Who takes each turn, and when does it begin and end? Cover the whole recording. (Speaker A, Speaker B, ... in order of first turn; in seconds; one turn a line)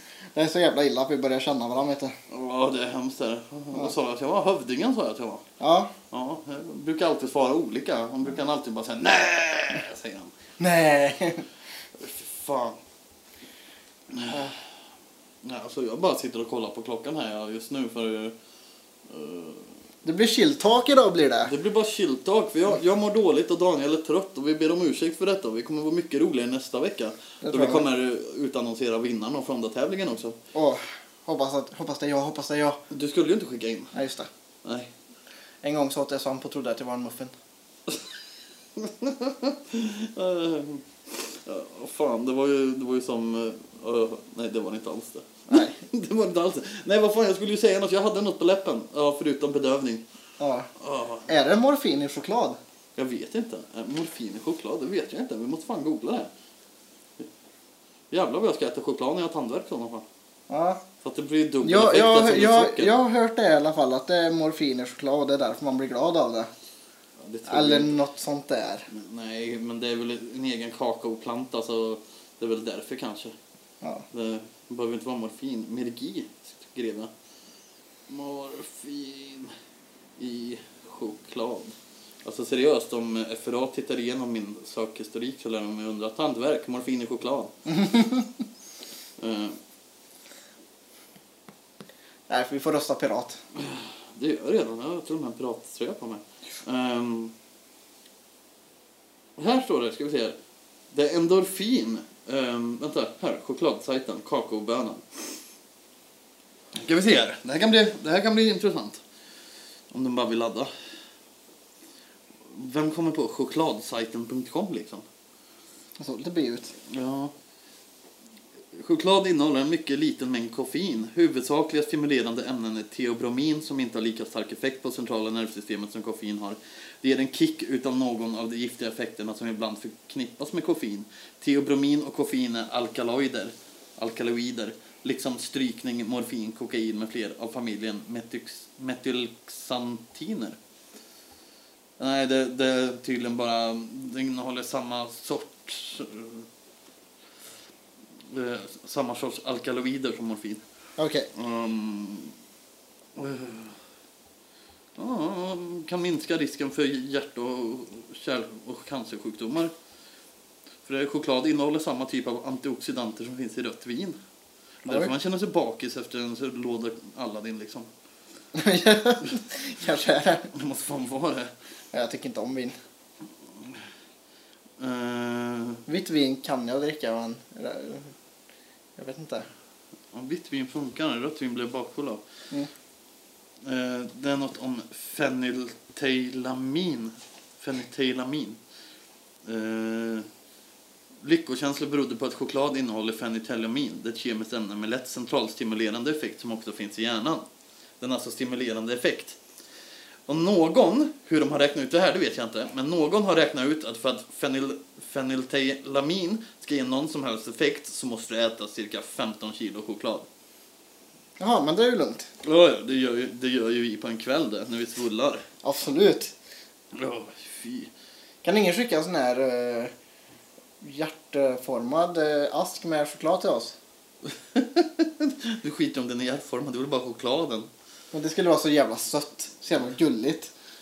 Speaker A: 0.3-2.1
Speaker B: 2.3-5.4
Speaker A: 5.6-5.9
Speaker B: 6.1-10.3
Speaker A: 10.6-11.4
Speaker B: 12.0-12.8
Speaker B: 14.1-14.5
Speaker B: 15.4-18.4
Speaker B: 19.1-19.7
Speaker A: 20.0-21.5
Speaker B: 21.4-30.4
Speaker A: 27.4-27.9
Speaker A: 30.5-32.8
Speaker B: 32.9-33.9
Speaker A: 33.9-34.3
Speaker B: 34.6-34.9
Speaker A: 35.6-37.3
Speaker B: 38.8-50.0
Speaker A: 45.5-45.8
Speaker A: 50.4-50.7
Speaker B: 50.8-51.3
Speaker A: 51.3-52.6
Speaker B: 53.0-56.3
Speaker B: 58.1-60.0
Speaker A: 60.5-60.8
Speaker B: 61.0-62.9
Speaker A: 61.6-66.5
Speaker B: 67.2-68.0
Speaker A: 67.5-68.9
Speaker B: 68.9-73.3
Speaker B: 74.1-77.1
Speaker B: 78.1-79.5
Speaker B: 80.2-87.5
Speaker A: 87.7-88.2
Speaker B: 89.2-89.6
Speaker A: 92.3-93.4
Speaker B: 93.6-97.3
Speaker B: 99.4-100.3
Speaker B: 100.9-105.3
Speaker B: 106.8-109.0
Speaker B: 109.9-110.7
Speaker B: 112.5-115.0
Speaker A: 116.0-116.7
Speaker B: 116.9-117.3
Speaker B: 118.7-140.6
Speaker B: 142.0-146.5
Speaker B: 148.3-150.6
Speaker A: 151.0-151.3
Speaker B: 151.3-152.3
Speaker B: 153.2-153.8
Speaker B: 155.0-159.7
Speaker B: 160.8-164.2
Speaker B: 164.8-167.9
Speaker A: 164.9-165.1
Speaker A: 168.5-170.5
Speaker B: 170.5-171.5
Speaker A: 171.9-172.8
Speaker B: 174.8-175.8
Speaker A: 175.9-178.1
Speaker A: 179.0-179.5
Speaker B: 180.1-182.2
Speaker B: 183.6-188.6
Speaker B: 189.4-190.3
Speaker B: 191.2-197.4
Speaker B: 198.0-199.4
Speaker B: 200.3-210.3
Speaker A: 211.4-212.3
Speaker B: 212.4-215.4
Speaker A: 215.6-216.3
Speaker B: 216.9-217.9
Speaker A: 218.4-219.9
Speaker A: 220.8-223.8
Speaker B: 224.3-227.7
Speaker A: 228.1-230.5